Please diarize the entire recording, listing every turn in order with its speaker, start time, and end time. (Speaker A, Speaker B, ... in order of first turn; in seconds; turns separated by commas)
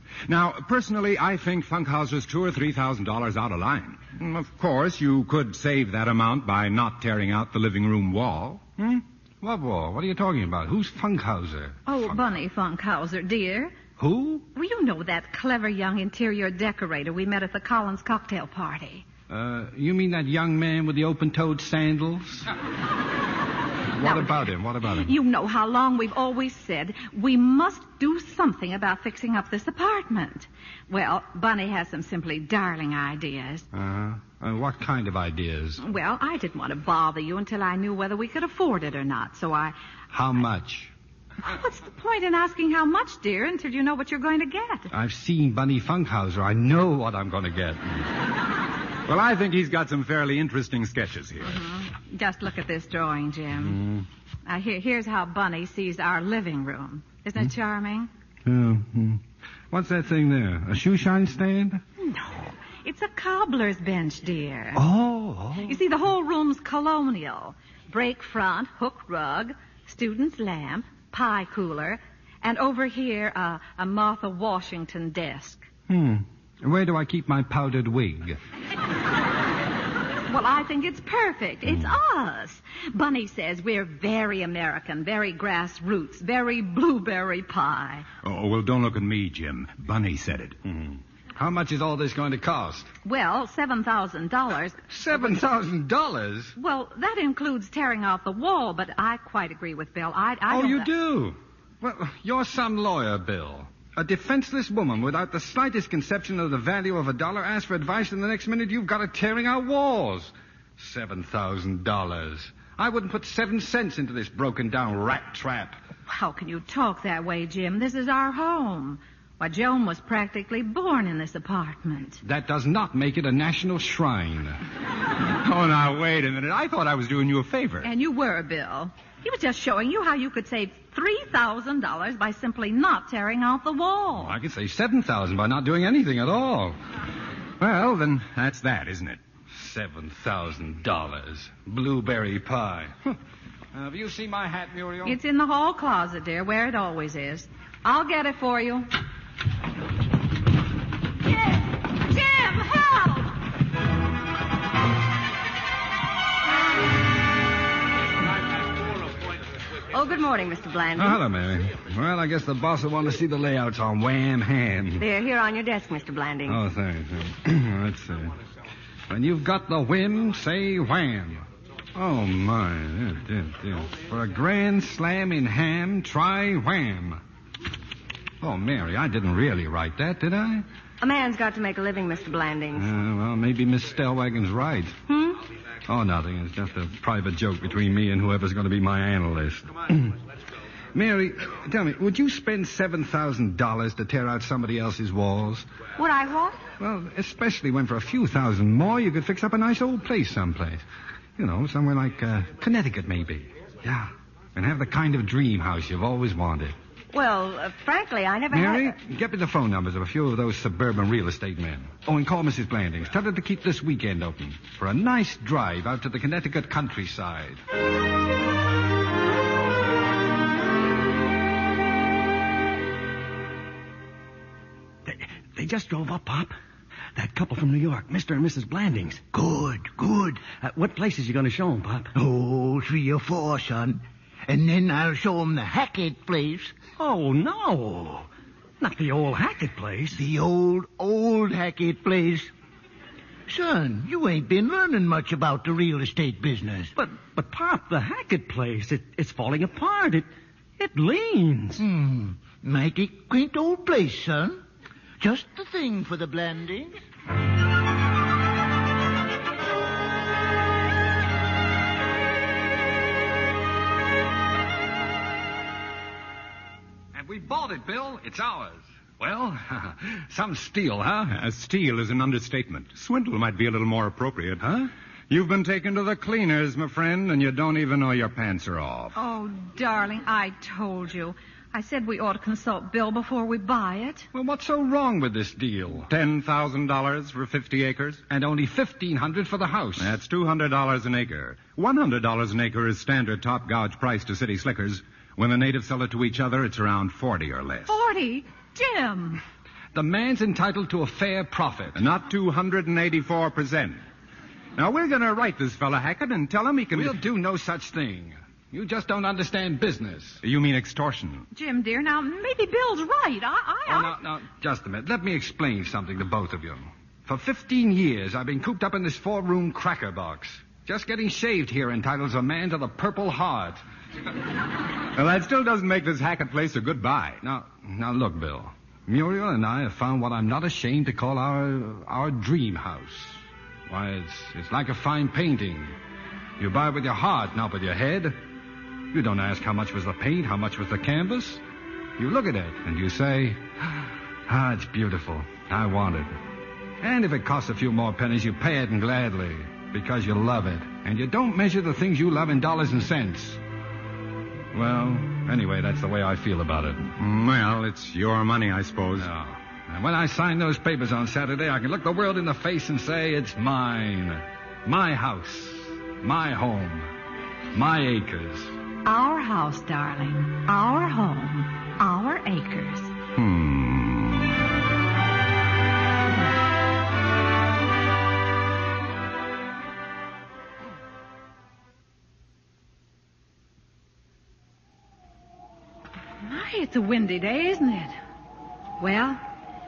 Speaker A: 0.3-8.7, Speaker B: 8.8-12.3, Speaker C: 11.9-13.8, Speaker B: 14.0-14.4, Speaker C: 14.6-19.1, Speaker B: 19.3-22.5, Speaker B: 24.0-25.1, Speaker C: 24.0-33.7, Speaker B: 33.7-35.8, Speaker C: 35.8-39.8, Speaker B: 40.1-40.9, Speaker C: 41.5-44.9, Speaker B: 44.9-48.1, Speaker A: 49.1-51.6, Speaker C: 51.4-53.8, Speaker B: 53.6-54.0, Speaker C: 54.5-58.1, Speaker B: 58.5-61.8, Speaker C: 62.0-64.9, Speaker B: 64.8-65.8, Speaker C: 65.6-75.7, Speaker B: 75.9-78.4, Speaker C: 80.3-88.1, Speaker B: 81.7-82.0, Speaker A: 88.2-90.6, Speaker B: 90.7-92.9, Speaker C: 93.0-95.4, Speaker B: 94.9-96.5, Speaker C: 96.6-100.9, Speaker B: 100.5-115.8, Speaker C: 116.1-122.2, Speaker B: 122.2-124.6, Speaker A: 125.4-127.9, Speaker C: 127.8-134.4, Speaker B: 134.2-136.8, Speaker A: 137.6-139.2, Speaker B: 139.5-143.2, Speaker B: 143.7-145.2, Speaker C: 145.0-148.9, Speaker C: 151.4-153.3, Speaker D: 159.9-161.2, Speaker B: 161.0-165.1, Speaker D: 165.0-166.6, Speaker B: 166.5-168.3, Speaker B: 169.1-177.2, Speaker B: 178.4-180.7, Speaker D: 181.0-182.9, Speaker B: 182.7-185.0, Speaker D: 185.1-185.4, Speaker B: 185.9-190.2, Speaker B: 190.9-195.7, Speaker D: 196.0-196.6, Speaker B: 196.8-200.8, Speaker B: 201.4-206.8, Speaker D: 207.1-208.9, Speaker B: 208.5-217.6, Speaker E: 225.1-226.6, Speaker E: 227.2-229.2, Speaker F: 229.3-230.5, Speaker E: 230.4-232.1, Speaker F: 232.2-236.8, Speaker E: 237.0-238.3, Speaker E: 238.8-240.2, Speaker F: 240.1-242.5, Speaker F: 243.5-246.9, Speaker E: 247.0-251.8, Speaker F: 251.8-254.6, Speaker F: 255.2-257.0, Speaker B: 267.1-271.4, Speaker A: 271.3-274.7, Speaker B: 274.6-274.9, Speaker A: 275.3-279.2, Speaker C: 279.1-284.3, Speaker B: 284.3-286.1, Speaker A: 286.1-288.2, Speaker B: 288.3-290.2, Speaker A: 290.0-298.0, Speaker C: 297.9-299.4, Speaker B: 299.9-302.0, Speaker A: 301.9-304.0, Speaker A: 304.8-307.2, Speaker B: 306.9-310.4, Speaker A: 310.4-311.5, Speaker C: 311.5-314.2, Speaker B: 313.9-323.8, Speaker A: 325.1-327.4, Speaker B: 327.4-335.9, Speaker B: 336.6-338.4, Speaker B: 339.1-341.6, Speaker B: 342.2-346.3, Speaker B: 347.0-353.6, Speaker B: 354.7-357.1, Speaker A: 357.2-359.3, Speaker B: 359.2-367.1, Speaker B: 367.7-368.8, Speaker C: 369.1-373.1, Speaker A: 373.4-374.4, Speaker C: 386.4-388.2, Speaker C: 389.0-389.4